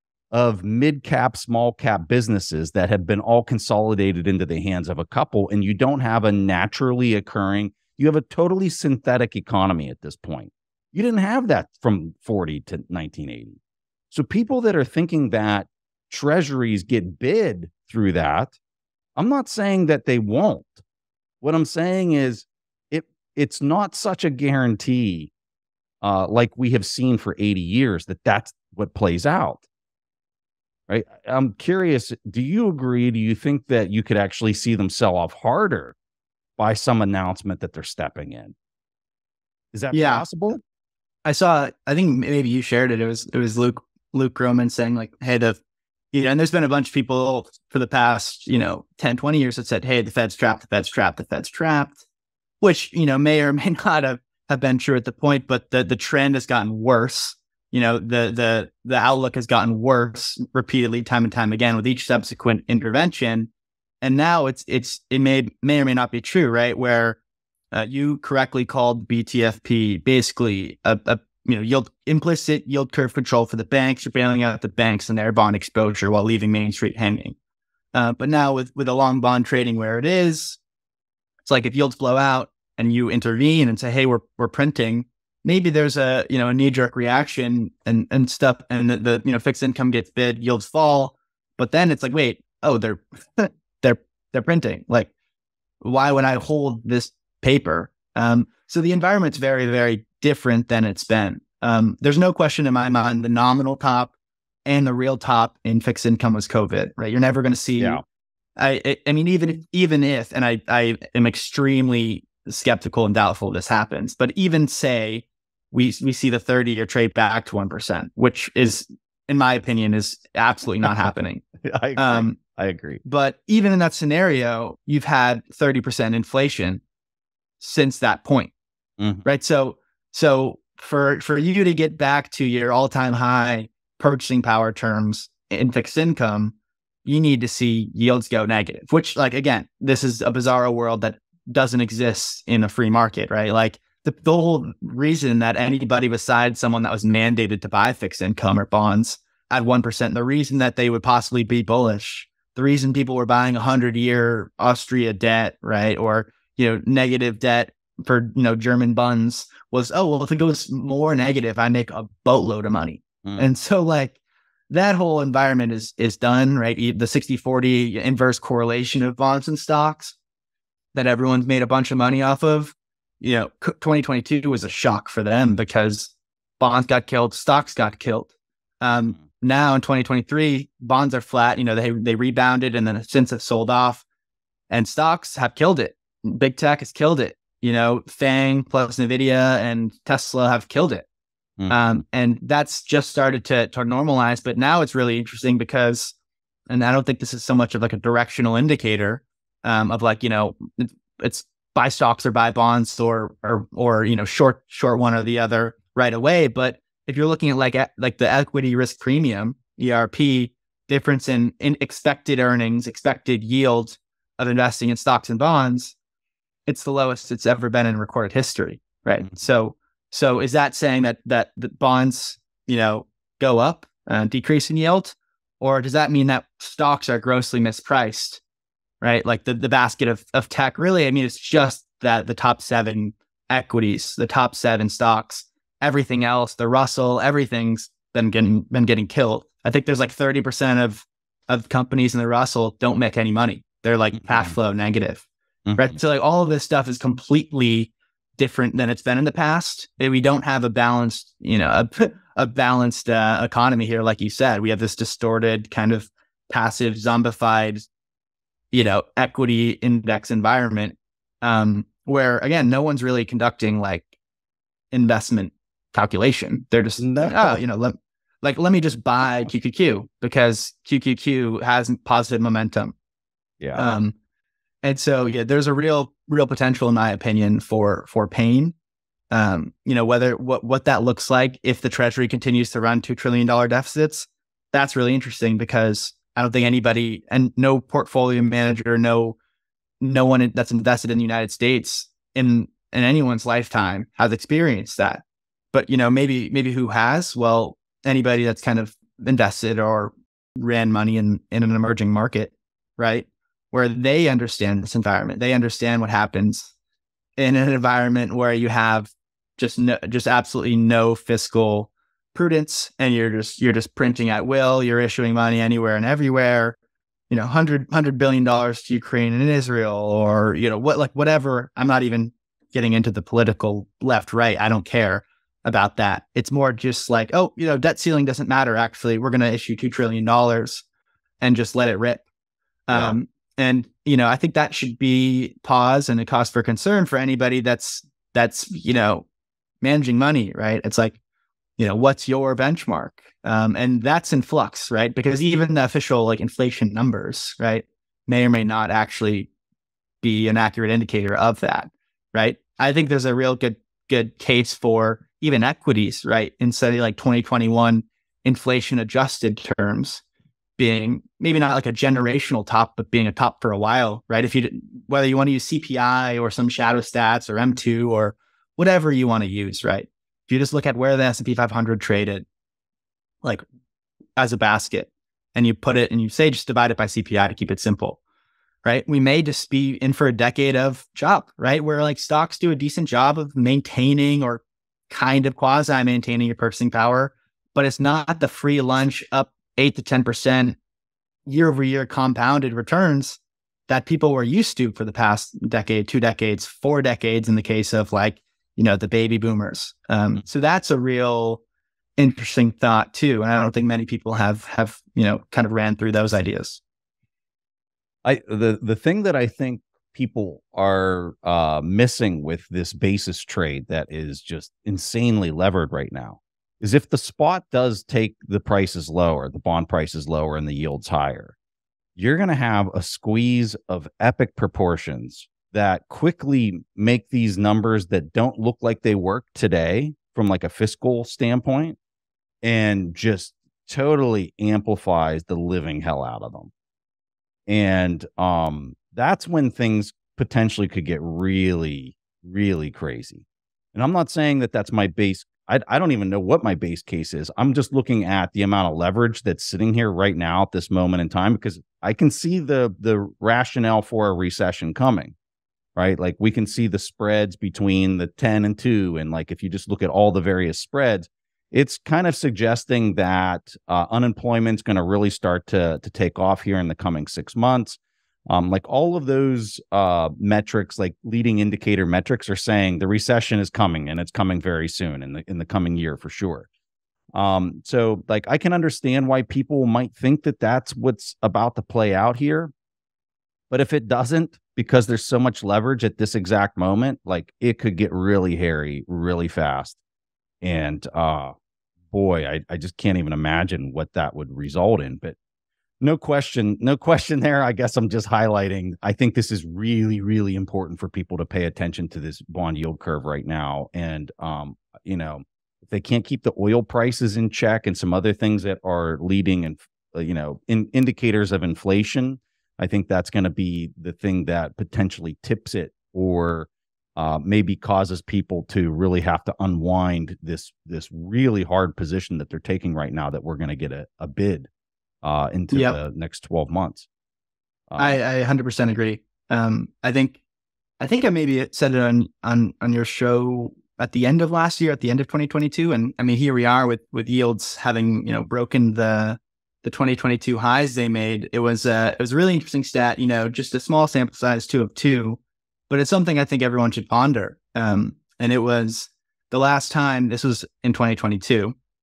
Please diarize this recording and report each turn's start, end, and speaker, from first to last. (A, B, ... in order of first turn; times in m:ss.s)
0:00.3-0:13.6 A
0:14.1-0:18.5 A
0:19.2-0:20.8 A
0:21.4-0:25.3 A
0:26.0-0:29.6 A
0:30.9-0:35.9 A
0:36.6-0:38.5 A
0:39.7-0:40.6 A
0:39.9-0:40.2 B
0:41.2-0:45.6 B
0:46.1-0:52.0 B
0:52.6-1:03.5 B
1:04.0-1:07.2 B
1:07.7-1:17.3 B
1:17.9-1:20.6 B
1:21.4-1:35.1 B
1:35.8-1:44.1 B
1:44.6-1:48.0 B
1:48.6-2:01.4 B
2:01.6-2:03.0 A
2:02.0-2:02.4 B
2:03.0-2:06.8 B
2:07.6-2:08.5 B
2:09.0-2:09.2 A
2:09.2-2:16.5 B
2:17.0-2:44.2 B
2:43.2-2:43.5 A
2:44.7-2:50.1 B
2:50.9-3:04.0 B
3:04.7-3:11.0 B
3:11.6-3:12.0 A
3:11.7-3:16.1 B
3:16.7-3:35.9 B
3:36.7-3:48.4 B
3:49.0-4:05.2 B
4:04.3-4:04.5 A
4:05.6-4:06.0 A
4:05.8-4:17.8 B
4:18.7-4:24.1 B
4:24.9-4:32.9 B
4:27.0-4:27.6 A
4:33.7-4:34.1 B
4:34.8-4:38.7 B
4:39.3-4:49.4 B
4:50.0-5:06.7 B
5:07.4-5:16.8 B
5:17.3-5:30.8 B
5:31.4-5:32.2 B
5:32.9-5:39.2 B
5:32.9-5:33.2 A
5:39.8-5:41.2 B
5:41.8-5:49.5 B
5:50.2-6:00.2 B
6:00.8-6:12.4 B
6:14.4-6:18.2 B
6:18.8-6:30.8 B
6:31.4-6:41.6 B
6:42.2-6:46.8 B
6:48.2-7:01.5 A
7:02.2-7:12.0 A
7:12.6-7:16.7 A
7:17.7-7:23.4 A
7:23.9-7:35.3 A
7:36.0-7:56.7 A
7:57.3-8:02.7 A
8:03.7-8:10.0 A
8:10.6-8:11.5 A
8:12.1-8:15.4 A
8:16.0-8:44.7 A
8:45.2-8:47.1 A
8:45.7-8:46.0 B
8:47.9-8:48.2 A
8:48.0-8:50.4 B
8:51.0-9:05.4 B
9:05.9-9:11.7 B